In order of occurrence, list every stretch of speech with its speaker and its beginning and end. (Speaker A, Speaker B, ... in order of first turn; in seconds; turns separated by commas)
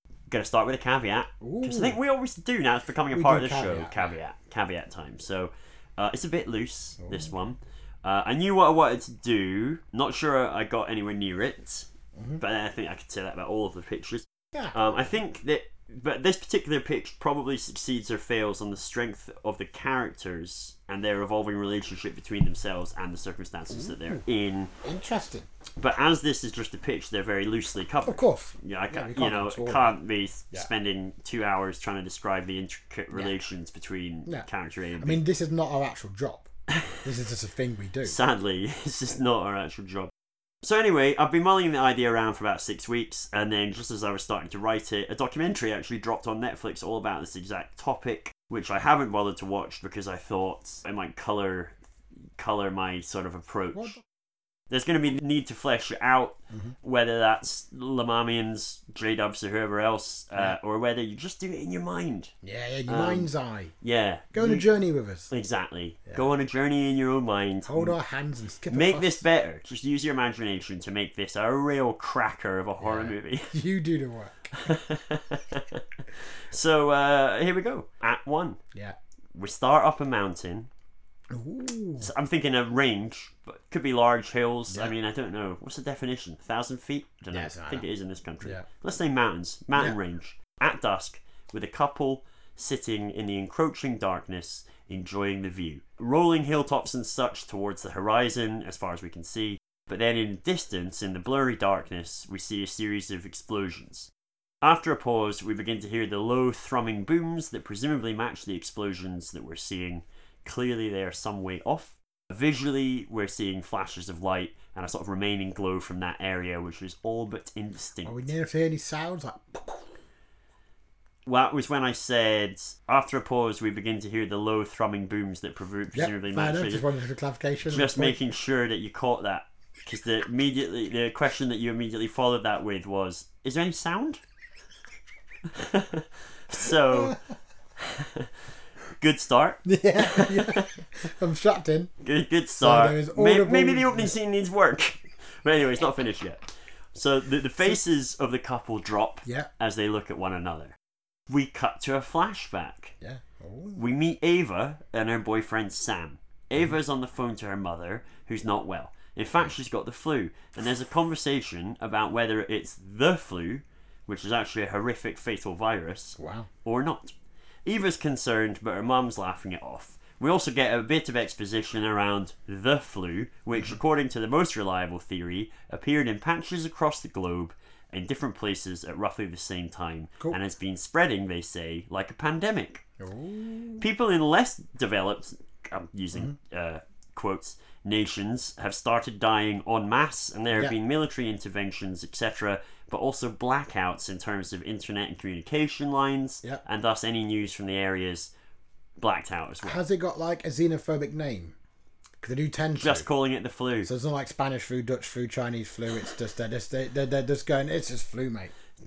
Speaker A: 0.3-24.7, Speaker B: 1.4-2.0, Speaker B: 3.1-4.1, Speaker B: 7.0-7.3, Speaker B: 23.7-24.2, Speaker B: 24.8-25.5, Speaker A: 25.8-35.2, Speaker B: 28.1-29.9, Speaker B: 35.0-38.1, Speaker A: 36.7-37.0, Speaker A: 38.0-40.1, Speaker A: 40.6-51.8, Speaker A: 52.4-54.0, Speaker B: 53.7-54.0, Speaker A: 54.7-62.3, Speaker B: 62.4-63.8, Speaker A: 62.9-63.3, Speaker A: 63.8-64.7, Speaker B: 64.3-65.3, Speaker A: 65.3-68.0, Speaker B: 67.7-69.2, Speaker A: 68.7-73.6, Speaker B: 72.8-74.5, Speaker A: 74.5-78.6, Speaker A: 79.3-80.7, Speaker B: 81.3-82.1, Speaker A: 82.0-104.1, Speaker B: 84.7-84.9, Speaker B: 87.3-87.8, Speaker A: 104.6-118.2, Speaker B: 118.0-119.9, Speaker A: 121.3-126.8, Speaker B: 125.9-128.2, Speaker A: 127.7-134.2, Speaker A: 135.5-137.2, Speaker B: 136.9-137.2, Speaker A: 137.8-138.3, Speaker A: 139.0-140.8, Speaker B: 139.6-141.9, Speaker A: 142.0-150.8, Speaker B: 142.6-144.1, Speaker B: 149.2-149.5, Speaker A: 151.3-152.9, Speaker B: 153.0-153.8, Speaker A: 153.8-167.1, Speaker B: 166.2-166.5, Speaker A: 167.7-182.8, Speaker B: 183.0-183.8, Speaker A: 183.8-198.3, Speaker A: 199.0-199.8, Speaker B: 199.6-201.6, Speaker B: 202.2-203.1, Speaker A: 202.8-203.9, Speaker B: 203.8-208.5